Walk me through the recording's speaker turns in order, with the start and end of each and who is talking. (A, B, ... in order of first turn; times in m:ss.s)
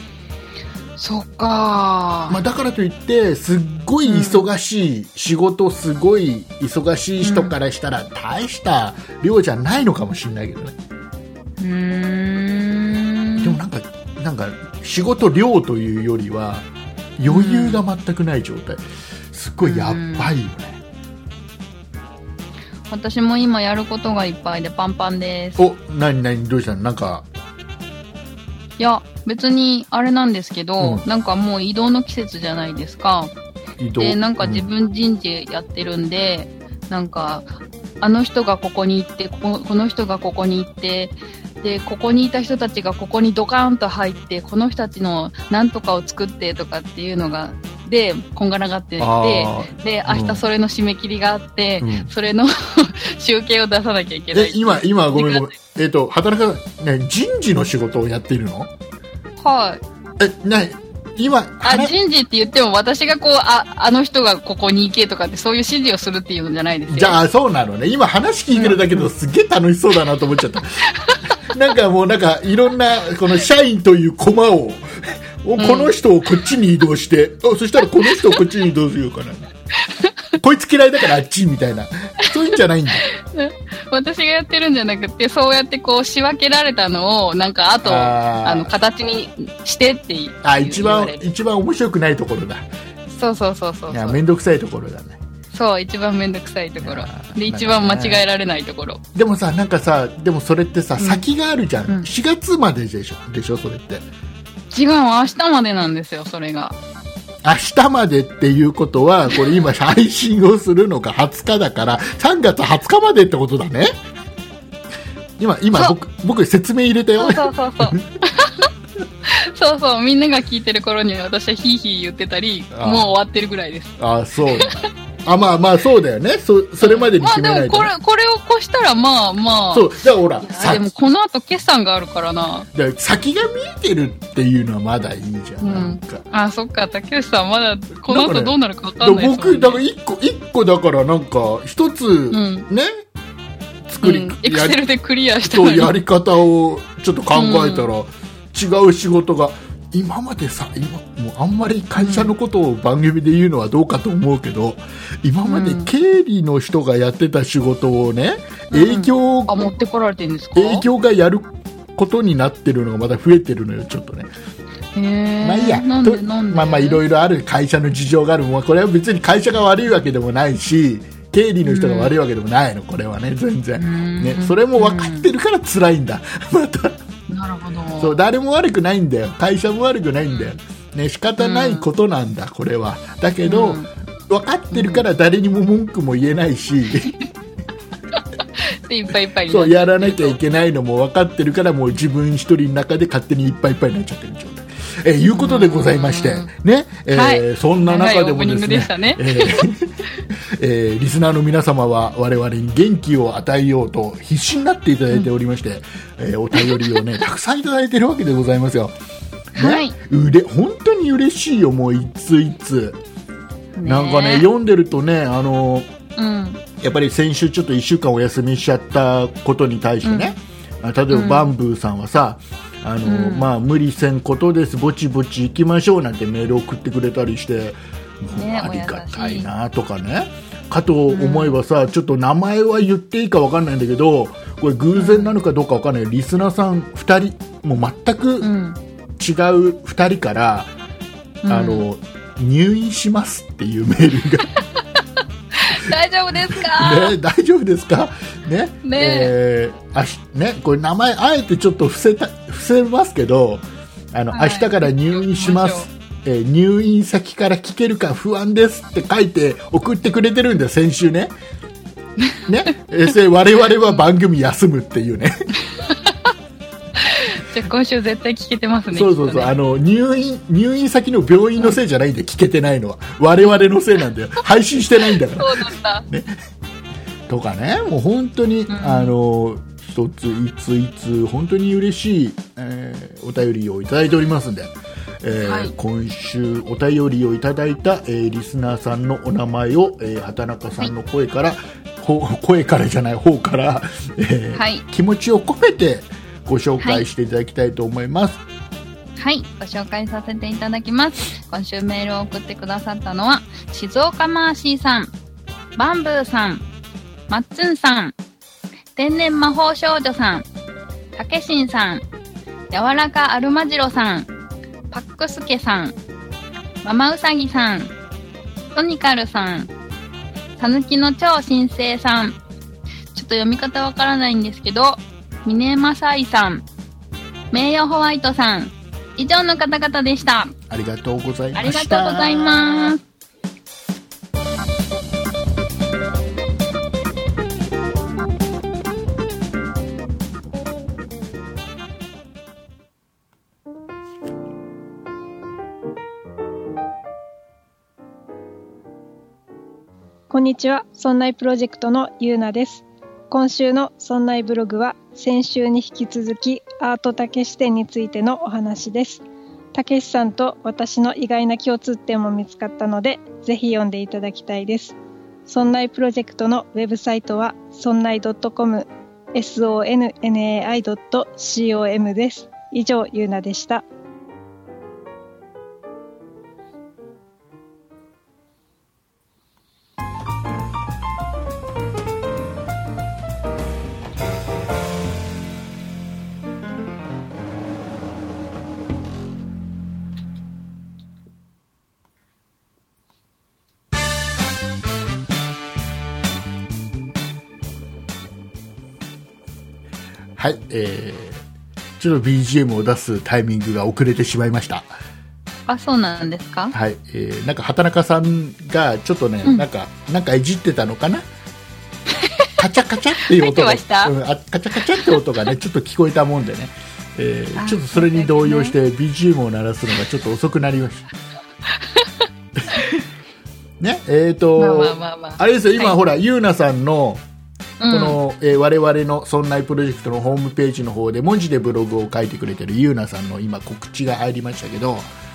0:01.0-0:02.4 A
0:02.3-0:10.8 B
0:04.0-0:04.5 A
0:07.2-0:07.5 A
0:11.6-0:13.6 A
0:13.4-0:20.8 B
0:17.3-0:17.8 A
0:19.6-0:20.3 A
0:22.9-0:25.6 A
0:25.6-0:27.3 B
0:28.8-0:33.3 A
0:30.8-0:31.0 B
0:33.8-0:34.7 B
0:34.0-0:55.4 A
0:49.0-0:50.4 B
0:51.8-0:52.1 B
0:54.3-0:58.7 B
0:59.4-0:59.8 A
1:00.2-1:02.0 B
1:01.6-1:07.2 A
1:06.9-1:19.5 B
1:08.5-1:09.1 A
1:10.9-1:11.3 A
1:15.6-1:15.9 A
1:18.0-1:18.3 A
1:20.4-1:23.0 B
1:23.0-1:31.2 A
1:27.8-1:28.7 B
1:30.4-1:32.7 B
1:33.1-1:34.2 A
1:33.9-1:35.2 B
1:35.5-1:39.0 A
1:36.8-1:38.2 B
1:39.1-1:44.1 B
1:41.0-1:41.2 A
1:44.7-1:46.8 A
1:47.4-1:53.9 B
1:55.4-1:58.0 B
1:57.2-1:58.7 A
1:59.3-2:04.0 A
2:02.7-2:03.1 B
2:04.0-2:07.9 B
2:04.5-2:04.8 A
2:06.8-2:12.7 A
2:09.7-2:10.9 B
2:12.7-2:16.2 B
2:15.6-2:19.8 A
2:18.0-2:22.9 B
2:22.3-2:22.7 A
2:23.9-2:24.8 B
2:24.0-2:25.9 A
2:25.4-2:39.6 B
2:27.3-2:27.9 A
2:32.0-2:32.3 A
2:35.4-2:35.9 A
2:38.7-2:40.8 A
2:40.5-2:44.3 B
2:44.9-2:47.0 A
2:45.4-2:57.0 B
2:51.6-2:52.1 A
2:53.8-2:55.3 A
2:57.3-2:58.2 A
2:58.0-3:07.1 B
3:00.3-3:00.6 A
3:01.4-3:01.8 A
3:03.4-3:03.9 A
3:04.7-3:05.0 A
3:08.6-3:10.4 A
3:09.5-3:28.9 B
3:15.3-3:16.5 A
3:17.1-3:20.2 A
3:26.5-3:27.0 A
3:29.5-3:33.0 B
3:29.6-3:29.9 A
3:33.8-3:34.5 A
3:33.8-3:35.9 B
3:36.2-3:36.6 A
3:36.8-3:58.5 B
3:40.0-3:40.4 A
3:41.1-3:41.5 A
3:43.0-3:43.5 A
3:48.3-3:49.5 A
3:51.1-3:51.6 A
3:55.0-3:55.3 A
3:58.4-3:58.8 A
3:59.2-4:00.7 B
4:01.4-4:01.8 A
4:01.5-4:04.5 B
4:05.5-4:07.2 A
4:06.5-4:21.3 B
4:08.8-4:09.3 A
4:14.3-4:15.9 A
4:22.2-4:25.3 B
4:25.7-4:26.3 A
4:27.0-4:29.6 A
4:28.9-4:36.3 B
4:33.4-4:33.6 A
4:35.1-4:36.0 A
4:37.3-4:58.4 B
4:38.7-4:39.1 A
4:45.4-4:45.7 A
4:54.5-4:54.8 A
4:56.8-4:57.0 A
4:59.2-5:05.1 A
5:05.8-5:06.6 A
5:07.3-5:08.1 A
5:09.0-5:10.4 A
5:11.1-5:12.0 A
5:12.7-5:14.3 A
5:14.9-5:16.0 A
5:16.8-5:17.9 A
5:18.7-5:19.7 A
5:20.6-5:22.4 A
5:23.1-5:26.6 A
5:27.5-5:30.5 A
5:30.7-5:32.8 B
5:31.5-5:33.0 A
5:50.3-6:05.0 C
6:05.5-6:13.8 C
6:40.4-6:41.4 B
6:42.0-6:44.9 B
6:45.7-6:46.7 A
6:46.7-6:51.3 B
6:52.1-6:52.5 A
6:52.6-7:01.0 B
6:53.2-6:54.1 A
6:57.5-6:58.7 A
7:01.7-7:02.9 A
7:02.6-7:03.0 B
7:03.8-7:07.2 B
7:04.6-7:05.9 A
7:07.8-7:08.2 A
7:07.9-7:15.1 B